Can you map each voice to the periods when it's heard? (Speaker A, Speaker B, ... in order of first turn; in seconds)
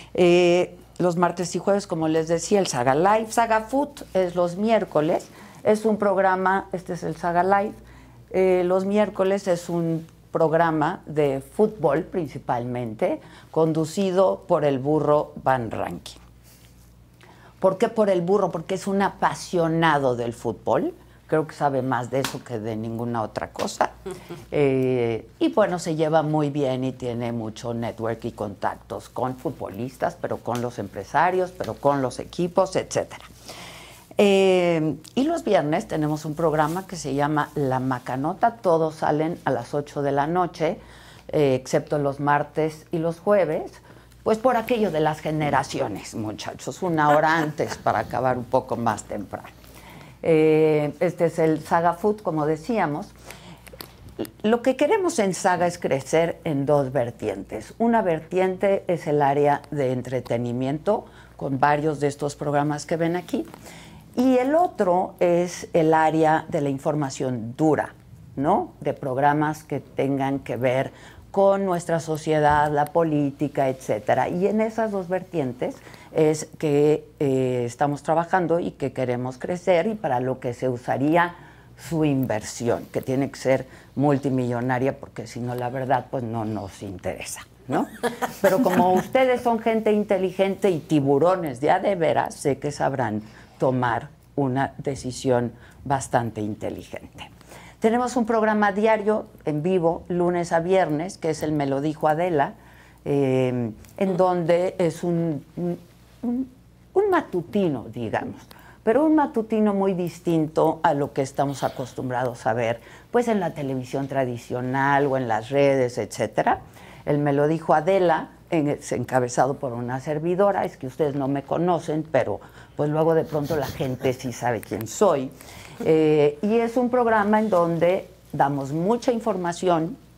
Speaker A: 0.1-7.8, 8.3-16.2, 17.6-23.9, 24.5-33.2, 34.2-49.5, 50.2-53.1, 54.2-63.5, 64.1-97.3, 97.8-102.5, 103.0-130.0